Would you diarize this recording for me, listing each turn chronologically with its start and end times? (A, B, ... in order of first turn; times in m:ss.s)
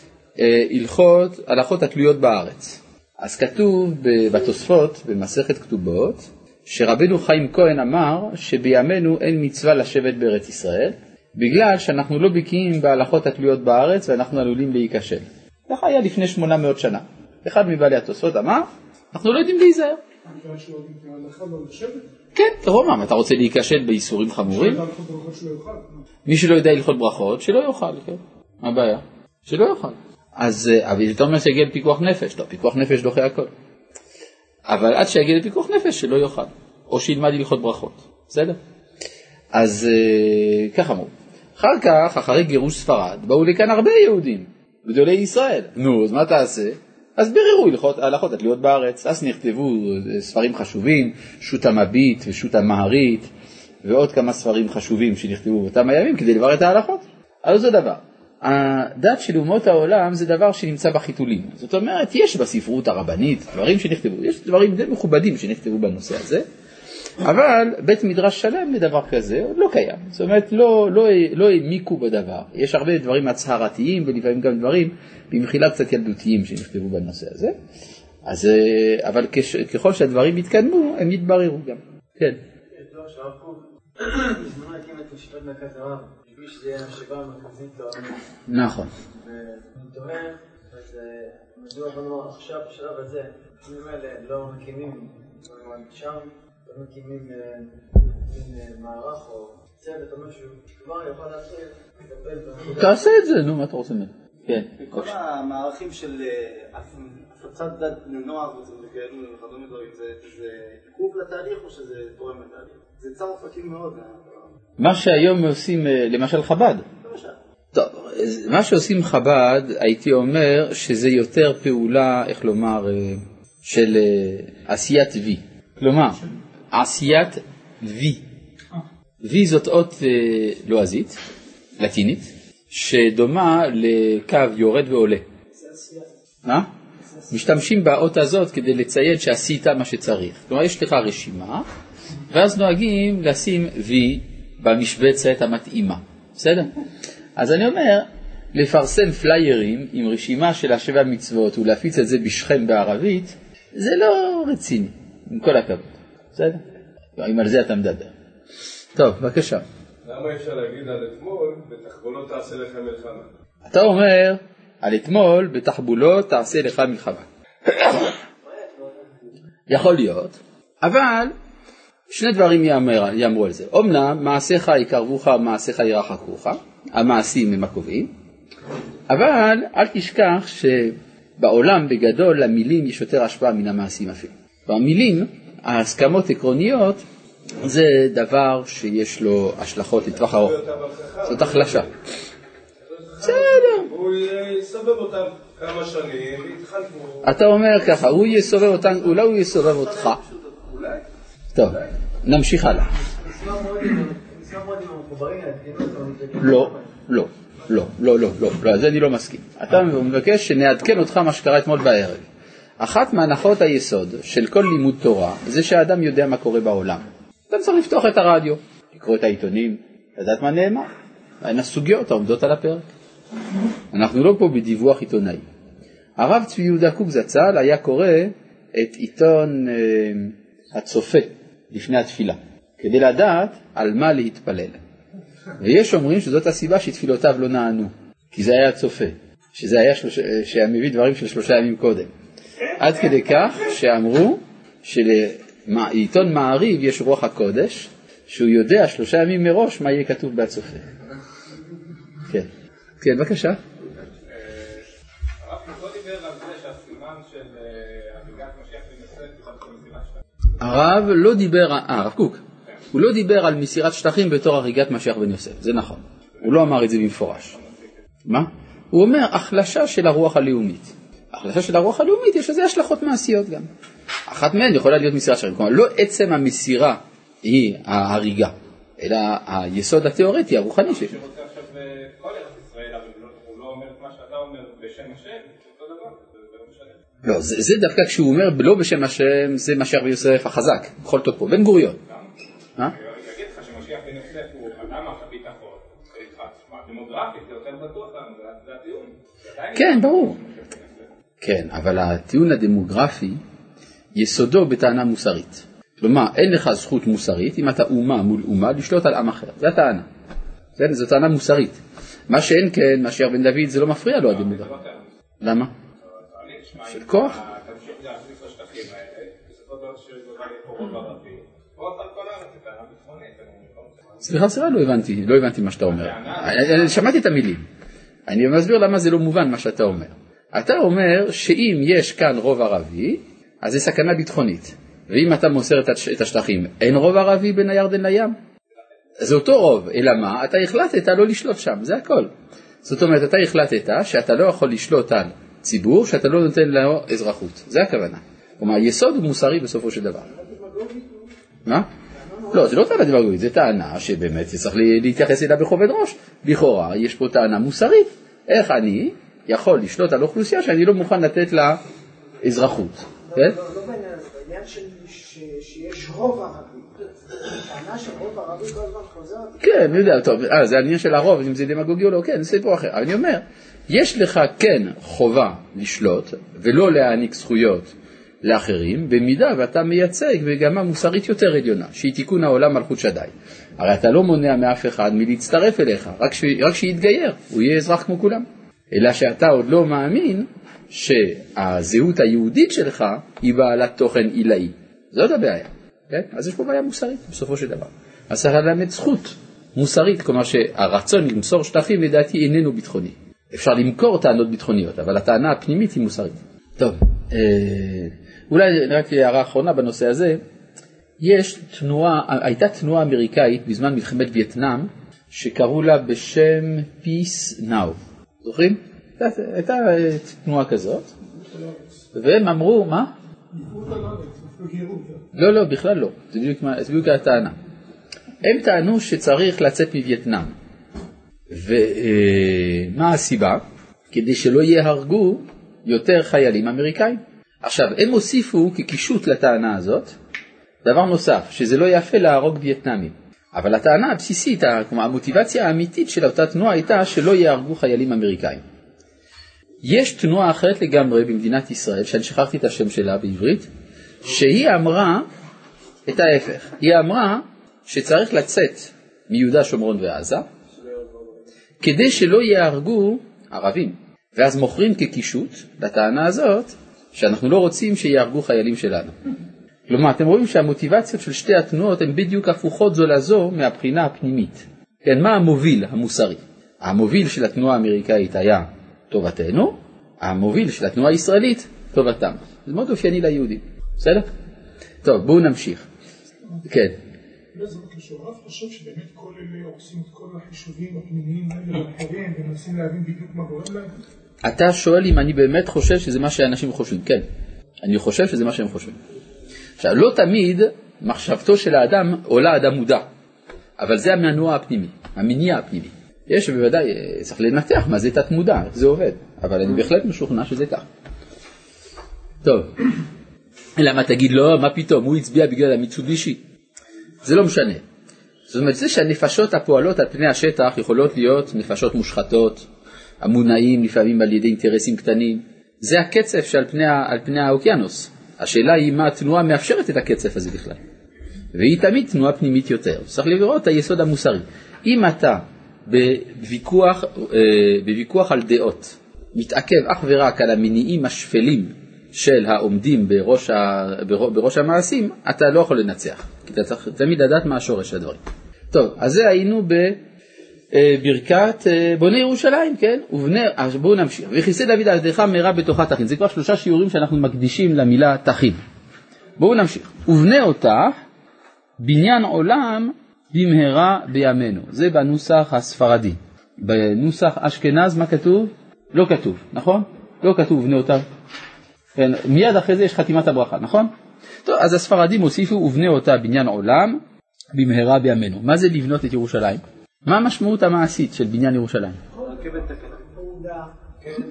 0:00.4-0:20.0 A
0:20.3-0:22.1 B
0:22.3-0:24.8 A
0:24.4-0:26.0 B
0:26.3-0:33.5 A
0:34.7-0:38.6 A
0:39.5-0:53.3 A
0:53.8-1:06.4 A
1:07.2-1:17.5 A
1:18.2-1:22.4 A
1:22.7-1:28.2 C
1:28.5-1:28.9 A
1:29.0-1:43.2 C
1:42.7-1:45.1 A
1:44.8-1:54.5 D
1:54.8-1:56.8 A
1:57.0-1:57.3 D
1:57.7-2:08.2 A
2:09.2-2:11.2 A
2:11.8-2:15.2 A
2:15.6-2:16.0 E
2:17.3-2:21.6 A
2:22.3-2:26.7 A
2:27.4-2:36.6 A
2:37.2-2:38.1 A
2:39.0-2:39.6 A
2:40.0-2:43.3 F
2:43.7-2:48.1 A
2:48.4-2:49.2 C
2:49.7-2:51.3 A
2:52.1-2:58.1 A
2:59.1-3:07.0 A
3:07.6-3:10.6 A
3:10.1-3:11.9 F
3:11.2-3:11.9 A
3:12.8-3:17.4 F
3:13.2-3:13.9 A
3:17.2-3:20.2 A
3:20.1-3:20.7 D
3:20.7-3:21.0 F
3:21.5-3:22.9 A
3:23.0-3:26.9 C
3:26.4-3:32.2 A
3:32.8-3:40.9 A
3:41.4-3:42.8 A
3:43.9-3:45.4 A
3:46.2-3:54.8 A
3:55.6-4:02.1 A
4:02.8-4:10.9 A
4:13.0-4:13.6 A
4:14.2-4:14.8 G
4:15.4-4:20.2 G
4:20.6-4:22.4 A
4:22.9-4:27.5 A
4:27.5-4:27.9 G
4:28.2-4:33.7 A
4:34.3-4:41.1 A
4:40.8-4:47.0 G
4:47.2-4:52.0 A
4:52.8-5:01.1 G
4:59.7-5:00.4 A
5:01.4-5:03.4 A
5:04.2-5:10.1 A
5:10.8-5:14.7 A
5:14.1-5:15.1 G
5:15.4-5:15.7 A
5:16.0-5:24.4 G
5:16.9-5:17.4 A
5:24.2-5:27.6 A
5:25.9-5:27.0 G
5:28.3-5:38.4 A
5:39.2-5:42.3 A
5:42.8-5:50.3 A
5:50.3-5:51.3 E
5:52.2-5:52.9 E
5:52.5-6:01.8 A
6:02.4-6:03.6 A
6:03.3-6:10.2 E
6:09.6-6:17.9 A
6:18.4-6:50.4 A
6:51.2-7:01.1 A
7:01.3-7:02.0 B
7:02.1-7:03.1 A
7:03.5-7:05.2 B
7:05.3-7:07.6 A
7:08.4-7:10.5 A
7:11.5-7:20.1 A
7:20.8-7:28.6 A
7:29.8-7:33.7 A
7:34.2-7:35.2 A
7:36.1-7:40.5 A
7:40.7-7:41.4 F
7:41.8-7:49.2 A
7:49.9-8:04.3 A
8:05.0-8:05.9 A
8:06.7-8:06.9 A
8:07.5-8:14.0 B
8:14.4-8:17.2 A
8:17.8-8:19.0 A
8:19.8-8:23.0 A
8:23.8-8:30.8 A
8:32.4-8:32.8 A
8:33.8-8:36.4 A
8:37.2-8:37.8 A
8:38.5-8:42.6 A
8:43.2-8:50.8 A
8:51.5-9:08.2 A
9:08.7-9:10.0 A
9:10.7-9:18.6 A
9:19.4-9:20.9 A
9:21.8-9:31.0 A
9:32.0-9:33.9 A
9:34.4-9:37.0 A
9:37.5-9:42.0 A
9:42.1-9:43.7 E